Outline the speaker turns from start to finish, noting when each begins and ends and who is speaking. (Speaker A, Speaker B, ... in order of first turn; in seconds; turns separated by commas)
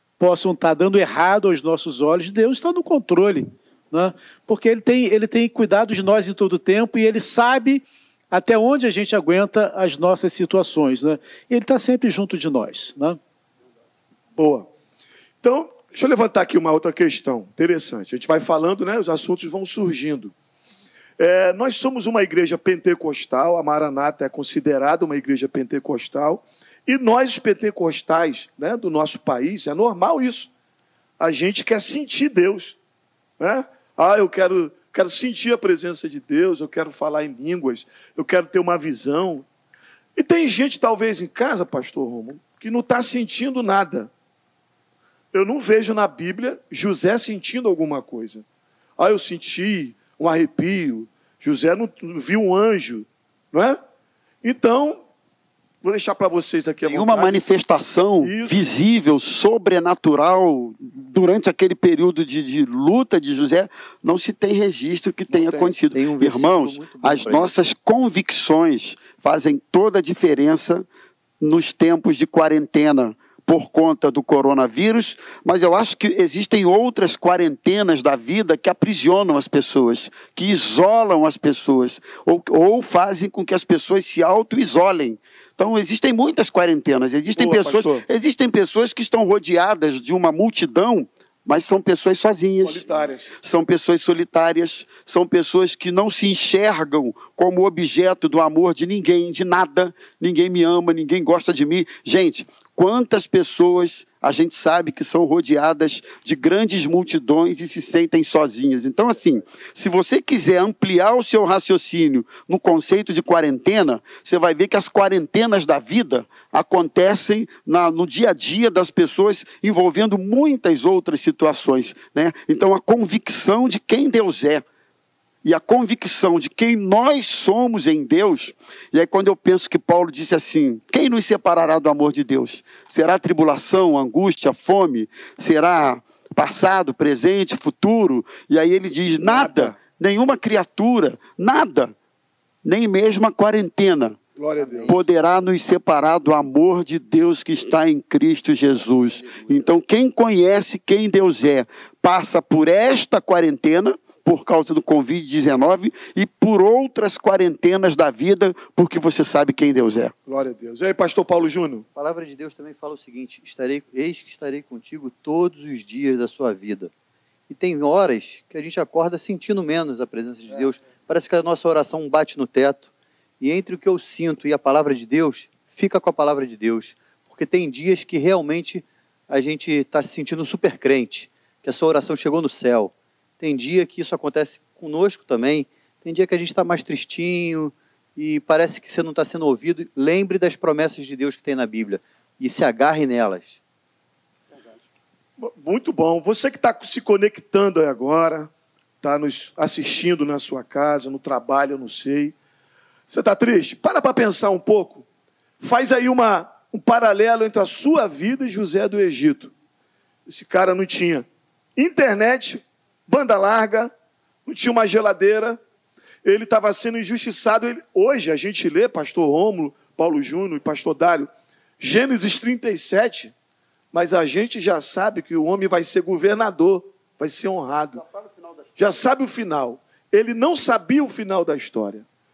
Speaker A: 0.2-13.2, Speaker B: 14.4-14.7, Speaker B: 15.4-20.3, Speaker B: 21.2-30.5, Speaker B: 31.2-32.8, Speaker B: 33.4-39.5, Speaker B: 40.2-44.1, Speaker B: 45.3-48.4, Speaker B: 49.0-53.8, Speaker B: 54.4-55.0, Speaker B: 55.8-57.4, Speaker C: 56.9-70.9, Speaker B: 58.2-58.7, Speaker D: 65.3-67.5, Speaker C: 71.4-92.8, Speaker B: 87.4-88.1, Speaker B: 92.6-93.3, Speaker C: 93.4-124.6, Speaker C: 125.4-141.9, Speaker B: 139.2-139.8, Speaker C: 142.6-144.2, Speaker B: 144.4-145.0, Speaker D: 144.6-145.0, Speaker C: 144.8-160.1, Speaker B: 160.3-161.9, Speaker D: 161.9-166.9, Speaker D: 167.5-172.9, Speaker D: 173.4-193.6, Speaker B: 195.4-198.5, Speaker B: 199.0-202.3, Speaker B: 203.1-205.1, Speaker B: 205.6-209.5, Speaker B: 210.3-213.9, Speaker B: 214.5-215.6, Speaker B: 216.2-221.3, Speaker B: 221.8-223.3, Speaker B: 223.9-228.0, Speaker B: 228.8-232.1